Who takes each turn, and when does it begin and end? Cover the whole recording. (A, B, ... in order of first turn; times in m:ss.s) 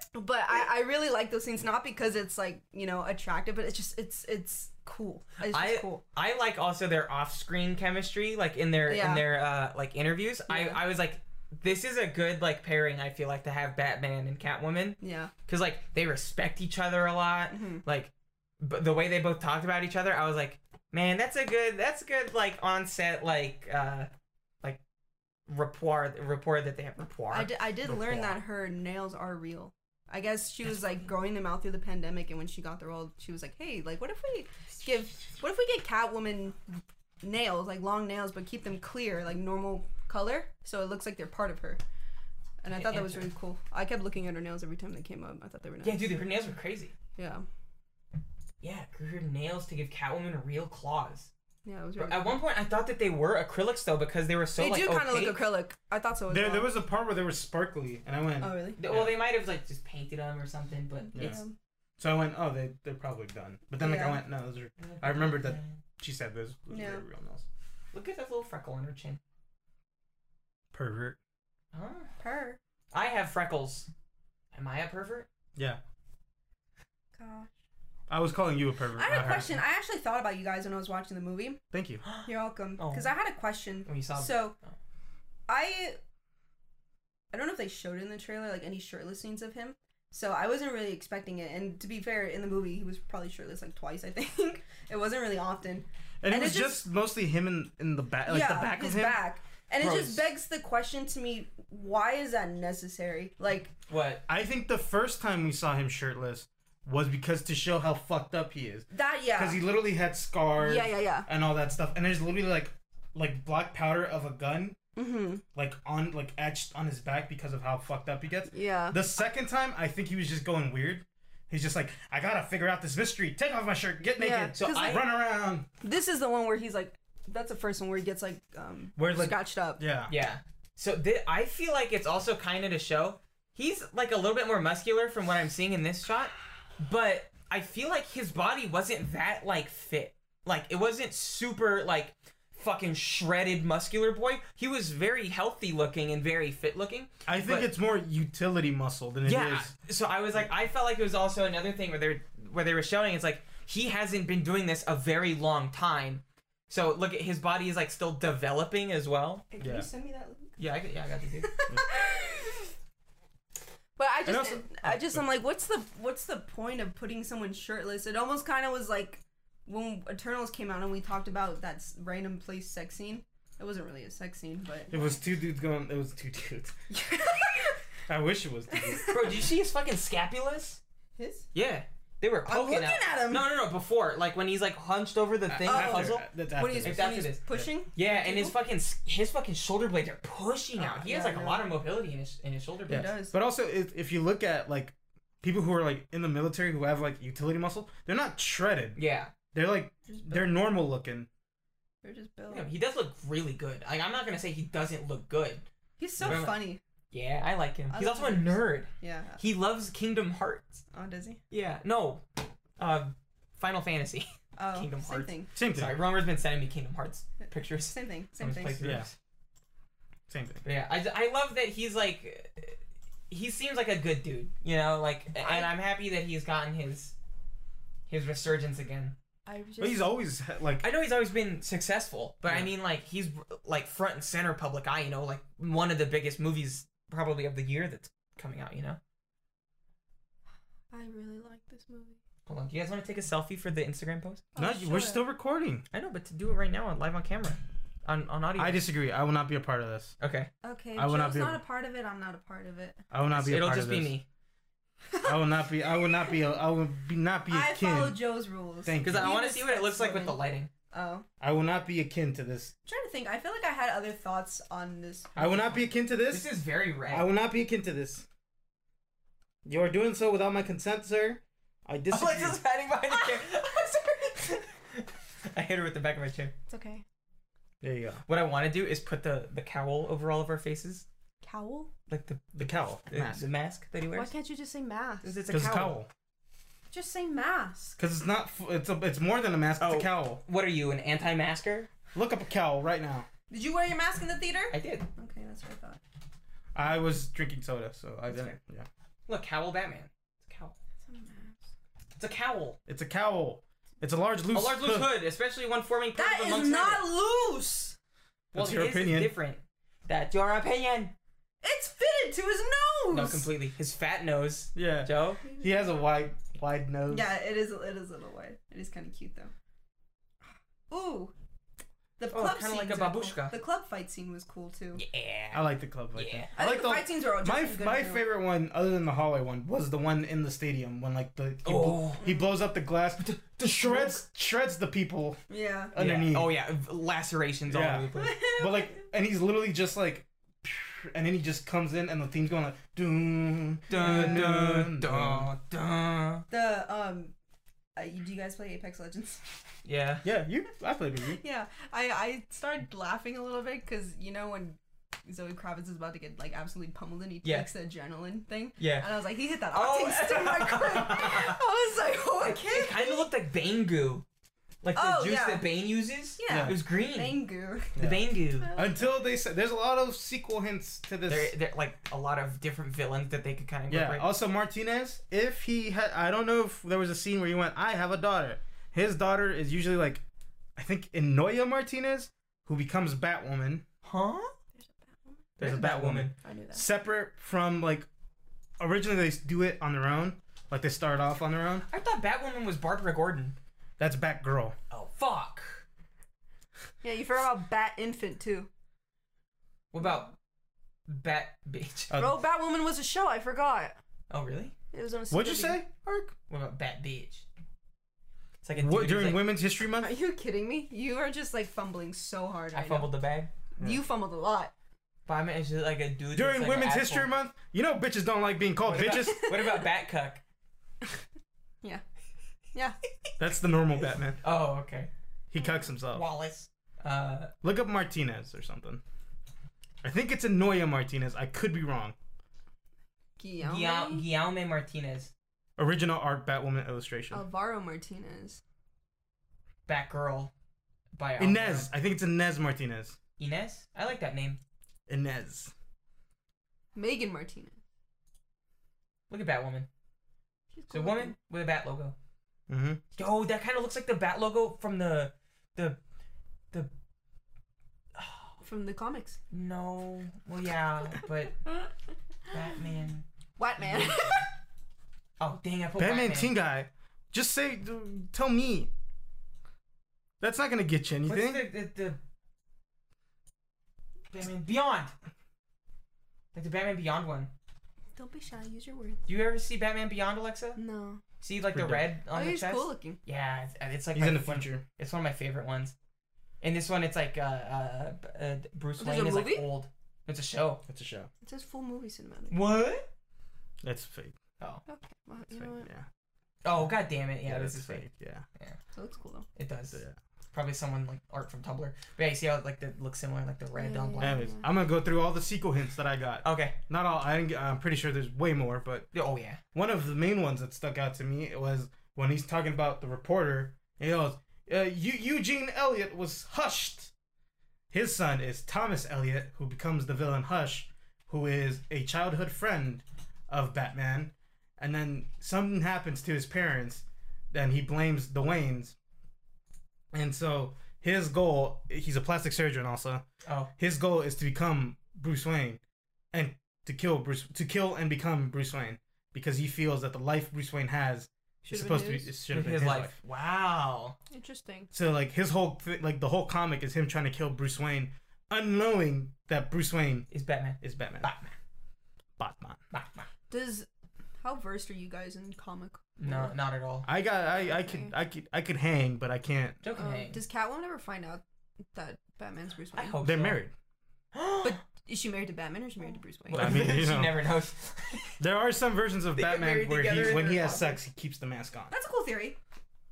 0:00.1-0:06.0 A
0:05.4-0:24.1 B
0:08.8-0:09.3 A
0:10.5-0:10.8 A
0:15.0-0:15.3 A
0:17.5-0:17.8 A
0:25.5-0:28.4 B
0:27.3-0:41.8 A
0:42.6-0:46.1 A
0:42.7-0:43.3 B
0:45.8-0:46.9 B
0:47.2-0:47.4 A
0:48.6-0:51.3 B
0:51.6-0:52.4 A
0:52.0-0:55.4 B
0:54.6-0:56.7 A
0:56.3-0:59.2 C
0:58.4-0:58.8 A
0:58.8-1:01.1 B
1:01.1-1:01.5 A
1:01.1-1:01.4 C
1:02.0-1:07.4 C
1:03.8-1:04.2 A
1:04.8-1:05.8 B
1:06.7-1:07.0 A
1:07.9-1:09.2 B
1:10.7-1:11.2 C
1:11.7-1:12.1 B
1:12.2-1:12.6 A
1:12.9-1:13.9 B
1:14.5-1:15.3 B
1:17.1-1:17.5 A
1:18.1-1:19.6 C
1:19.0-1:21.6 A
1:21.7-1:22.0 C
1:22.0-1:23.1 B
1:22.2-1:24.5 A
1:23.8-1:24.7 B
1:25.5-1:26.0 A
1:27.3-1:36.8 A
1:36.2-1:39.2 C
1:38.2-1:43.7 A
1:39.8-1:40.2 B
1:43.9-1:44.2 B
1:44.3-1:54.8 C
1:48.9-1:49.6 A
1:50.6-1:51.3 A
1:55.0-1:55.4 A
1:55.5-2:05.7 C
1:58.5-1:59.0 A
2:04.2-2:05.1 A
2:04.5-2:05.1 B
2:05.8-2:09.8 A
2:09.0-2:10.1 C
2:10.1-2:27.7 B
2:27.3-2:29.7 C
2:29.2-2:39.4 B
2:39.5-2:40.6 A
2:39.6-2:39.9 C
2:40.6-2:41.5 B
2:41.4-2:42.7 A
2:41.7-2:42.0 C
2:44.0-2:55.2 A
2:44.2-2:45.2 C
2:54.9-2:56.7 C
2:56.9-2:57.8 A
2:58.1-2:59.2 C
2:58.7-2:59.4 A
2:59.1-3:00.8 B
3:01.2-3:01.5 A
3:01.5-3:06.3 B
3:02.4-3:03.5 A
3:05.5-3:07.6 C
3:05.6-3:08.6 A
3:06.8-3:13.1 B
3:10.8-3:11.7 A
3:12.9-3:13.4 A
3:12.9-3:19.0 C
3:19.0-3:19.3 B
3:19.5-3:21.3 C
3:20.1-3:20.6 A
3:22.0-3:22.7 A
3:22.5-3:25.6 B
3:26.0-3:26.8 A
3:26.2-3:26.4 C
3:26.2-3:30.8 B
3:27.9-3:29.4 A
3:30.9-3:31.4 A
3:31.5-3:32.2 B
3:32.8-3:39.1 B
3:34.6-3:35.5 A
3:35.6-3:36.0 C
3:37.4-3:38.9 A
3:38.8-3:39.1 C
3:40.3-3:40.6 C
3:40.6-3:42.8 B
3:43.3-3:47.1 B
3:45.4-3:45.7 A
3:48.1-3:49.1 B
3:49.4-3:50.1 A
3:49.8-3:50.8 C
3:50.8-3:59.0 B
4:00.9-4:02.2 A
4:02.4-4:04.5 B
4:04.5-4:05.2 A
4:04.6-4:05.8 C
4:05.9-4:08.8 B
4:08.6-4:10.1 C
4:10.2-4:10.5 B
4:10.6-4:13.0 A
4:11.0-4:11.6 C
4:13.1-4:14.1 C
4:13.3-4:14.2 B
4:15.1-4:15.5 A
4:15.2-4:18.2 C
4:16.0-4:16.3 A
4:17.5-4:20.4 A
4:18.8-4:19.4 C
4:19.0-4:20.7 B
4:20.9-4:21.2 A
4:21.4-4:22.7 C
4:22.8-4:25.7 A
4:25.4-4:26.5 C
4:26.3-4:27.3 B
4:27.1-4:28.2 C
4:29.6-4:32.6 C
4:32.1-4:36.5 B
4:33.1-4:34.2 A
4:36.7-4:37.0 A
4:37.8-4:38.2 C
4:38.3-4:41.0 B
4:41.4-4:41.9 A
4:42.1-4:44.3 B
4:42.6-4:43.4 C
4:44.1-4:45.4 A
4:45.2-4:46.0 B
4:45.5-4:46.1 C
4:46.9-4:48.0 A
4:48.0-4:50.4 C
4:49.8-4:51.9 B
4:52.1-4:53.3 C
4:53.5-4:56.0 A
4:54.7-4:55.1 B
4:56.7-4:58.9 C
4:58.3-4:58.6 A
4:59.3-5:00.7 B
5:01.0-5:01.7 A
5:02.2-5:02.8 B
5:02.9-5:05.1 C
5:04.5-5:07.1 B
5:06.1-5:08.0 A
5:08.5-5:09.3 C
5:08.5-5:11.1 B
5:11.6-5:13.5 A
5:13.1-5:15.4 B
5:14.7-5:17.3 C
5:15.4-5:15.8 A
5:17.1-5:19.5 A
5:20.9-5:21.3 A
5:22.2-5:25.0 A
5:22.3-5:23.6 B
5:24.9-5:26.5 B
5:25.5-5:35.4 C
5:26.5-5:28.2 A
5:31.6-5:32.2 B
5:33.2-5:34.2 B
5:35.5-5:35.9 A
5:35.9-5:36.5 C
5:36.0-5:38.5 B
5:37.7-5:45.5 C
5:38.1-5:39.0 A
5:43.9-5:46.5 B
5:43.9-5:44.4 A
5:46.5-5:47.3 A
5:48.0-5:49.6 A
5:49.8-5:50.2 B
5:50.2-5:51.4 C
5:51.4-6:03.3 A
5:57.4-5:57.7 B
5:58.8-5:59.2 B
5:59.7-6:01.6 B
6:02.4-6:04.2 B
6:04.8-6:07.4 B
6:04.9-6:05.7 A
6:06.4-6:08.0 A
6:06.5-6:06.8 C
6:07.9-6:08.7 B
6:08.0-6:11.5 C
6:08.6-6:09.0 A
6:11.3-6:14.2 B
6:13.9-6:20.2 C
6:20.8-6:23.8 C
6:24.0-6:24.5 B
6:24.8-6:25.8 A
6:25.6-6:26.3 B
6:25.6-6:28.1 C
6:26.4-6:26.9 A
6:28.8-6:31.8 C
6:31.9-6:33.6 B
6:34.0-6:34.8 C
6:34.9-6:35.8 B
6:37.0-6:38.7 A
6:39.9-6:40.3 B
6:41.1-6:42.2 B
6:42.1-6:42.4 C
6:42.1-6:44.0 A
6:44.3-6:44.7 B
6:44.9-6:45.8 A
6:45.3-6:46.3 C
6:46.5-6:47.4 B
6:48.6-6:49.4 B
6:48.7-6:50.1 C
6:50.0-6:53.1 A
6:52.7-6:53.5 B
6:53.8-6:54.7 A
6:55.2-6:57.3 B
6:56.3-6:59.5 C
6:58.9-7:00.4 B
6:59.1-6:59.8 A
7:03.4-7:04.4 C
7:04.4-7:05.1 B
7:05.5-7:06.2 C
7:06.1-7:07.5 B
7:07.6-7:09.0 C
7:10.0-7:12.1 C
7:13.4-7:14.2 A
7:13.6-7:15.3 B
7:15.8-7:17.4 C
7:17.3-7:18.6 A
7:19.9-7:20.5 B
7:21.1-7:21.9 B
7:21.4-7:23.2 C
7:23.4-7:24.6 B
7:25.1-7:25.7 C
7:26.9-7:27.8 A
7:29.3-7:29.9 B
7:30.7-7:31.4 A
7:30.9-7:32.2 B
7:32.7-7:33.0 C
7:33.2-7:36.0 B
7:38.2-7:38.5 B
7:38.6-7:39.4 A
7:39.5-7:41.6 B
7:42.5-7:43.2 B
7:43.6-7:44.5 A
7:43.8-7:44.4 B
7:45.4-7:46.5 B
7:46.0-7:48.9 C
7:50.4-7:51.7 C
7:51.2-7:52.2 B
7:54.3-7:55.1 B
7:56.5-7:57.5 B
7:58.2-7:59.2 A
7:59.3-8:00.8 B
8:00.8-8:01.2 A
8:01.4-8:05.9 B
8:01.7-8:02.1 C
8:02.3-8:03.2 A
8:04.1-8:04.8 C
8:06.6-8:10.8 B
8:09.0-8:09.7 A
8:10.9-8:11.3 C
8:11.4-8:12.6 A
8:12.5-8:13.1 B
8:13.8-8:14.4 C
8:14.8-8:15.9 A
8:15.6-8:16.0 C
8:16.6-8:18.1 B
8:16.7-8:18.4 C
8:18.9-8:19.5 A
8:19.6-8:20.0 B
8:20.5-8:24.4 B
8:23.8-8:24.6 A
8:24.2-8:29.1 C
8:26.4-8:26.8 B
8:29.1-8:29.6 B
8:29.7-8:37.1 C
8:37.9-8:49.0 C
8:50.1-8:53.2 C
8:53.4-8:53.7 B
8:53.8-8:55.8 C
8:56.3-9:03.1 C
9:01.7-9:02.3 A
9:02.5-9:04.2 B
9:04.3-9:04.9 A
9:04.9-9:10.3 C
9:10.3-9:11.5 B
9:10.8-9:11.3 C
9:12.4-9:12.8 C
9:12.9-9:13.3 B
9:13.5-9:13.9 A
9:14.4-9:16.5 A
9:16.2-9:17.1 B
9:17.0-9:19.8 C
9:17.5-9:18.1 A
9:19.8-9:20.4 B
9:19.9-9:21.4 A
9:21.9-9:23.2 A
9:22.9-9:23.6 B
9:23.2-9:23.7 C
9:24.3-9:24.8 B
9:24.6-9:26.9 A
9:26.5-9:28.4 B
9:26.5-9:27.5 C
9:28.4-9:31.9 C
9:29.3-9:30.9 B
9:31.9-9:32.6 A